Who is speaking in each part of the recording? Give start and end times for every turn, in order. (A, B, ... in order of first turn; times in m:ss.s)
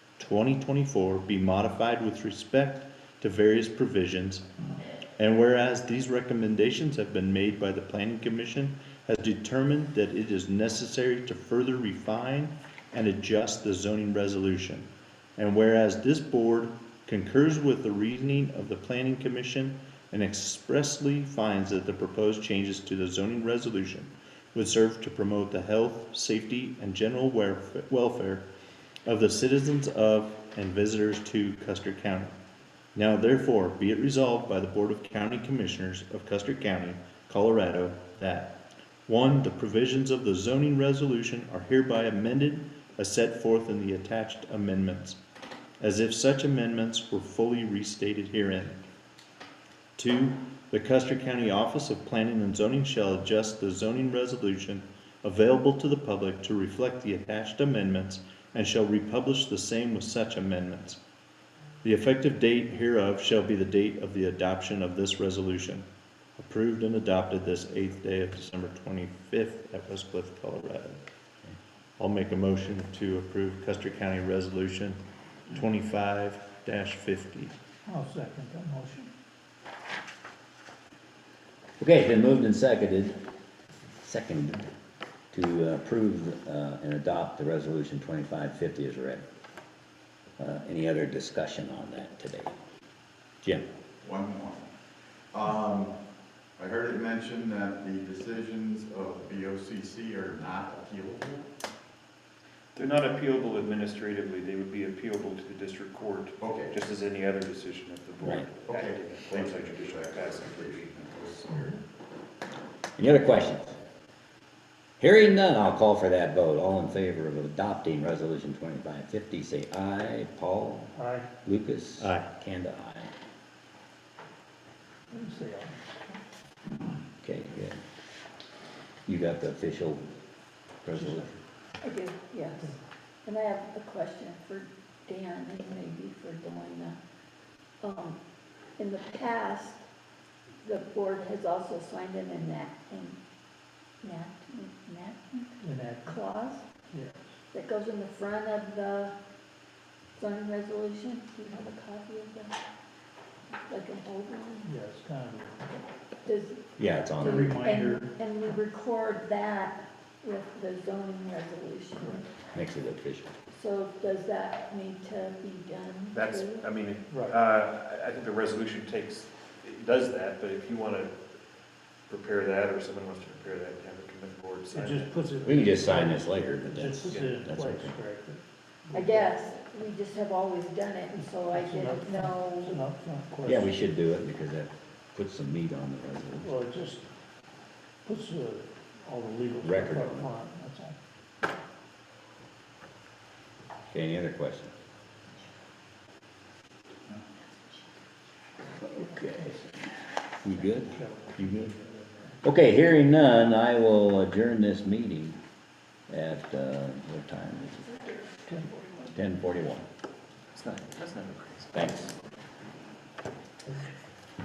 0:00.2-0:04.4 A
0:05.2-0:28.4 A
0:29.0-0:32.3 A
0:32.9-0:38.6 A
0:39.1-0:45.2 A
0:45.8-0:48.8 A
0:50.0-1:01.0 A
1:01.8-1:05.8 A
1:06.4-1:11.0 A
1:12.0-1:17.5 A
1:17.8-1:19.1 B
1:21.8-1:23.2 C
1:24.0-1:24.7 C
1:25.3-1:29.2 C
1:30.4-1:32.5 C
1:33.4-1:33.7 C
1:34.0-1:34.7 D
1:35.3-1:35.9 D
1:36.6-1:41.5 D
1:42.7-1:50.9 E
1:46.4-1:46.7 D
1:48.2-1:48.5 C
1:48.7-1:51.8 D
1:53.0-1:53.8 C
1:55.0-2:00.9 C
2:01.0-2:01.3 B
2:01.4-2:03.1 C
2:02.0-2:02.3 A
2:05.1-2:06.2 B
2:07.2-2:07.8 C
2:09.0-2:10.1 C
2:10.8-2:11.4 C
2:10.9-2:11.3 B
2:11.8-2:17.0 F
2:17.8-2:18.2 F
2:18.8-2:19.8 F
2:20.6-2:23.2 F
2:24.0-2:26.7 F
2:25.6-2:26.2 B
2:26.9-2:27.2 B
2:27.5-2:29.1 F
2:30.1-2:32.6 F
2:33.5-2:34.7 F
2:34.6-2:35.7 B
2:36.2-2:36.6 F
2:36.8-2:37.6 C
2:37.2-2:38.1 B
2:37.2-2:42.2 F
2:42.0-2:42.2 B
2:42.5-2:43.3 C
2:43.5-2:46.7 F
2:46.1-2:51.1 E
2:47.1-2:47.4 B
2:52.1-2:55.4 E
2:54.7-2:59.3 B
2:55.4-2:58.0 C
2:57.0-2:57.3 E
2:58.9-3:02.8 F
3:01.2-3:03.7 B
3:03.4-3:06.5 C
3:06.4-3:07.1 B
3:08.0-3:11.0 B
3:09.6-3:10.3 C
3:13.9-3:14.7 C
3:18.8-3:19.6 C
3:18.9-3:19.7 B
3:20.4-3:21.7 C
3:20.7-3:22.0 B
3:22.4-3:25.4 C
3:26.1-3:28.1 C
3:28.4-3:29.1 B
3:29.1-3:29.8 C
3:30.5-3:31.7 E
3:31.7-3:32.1 C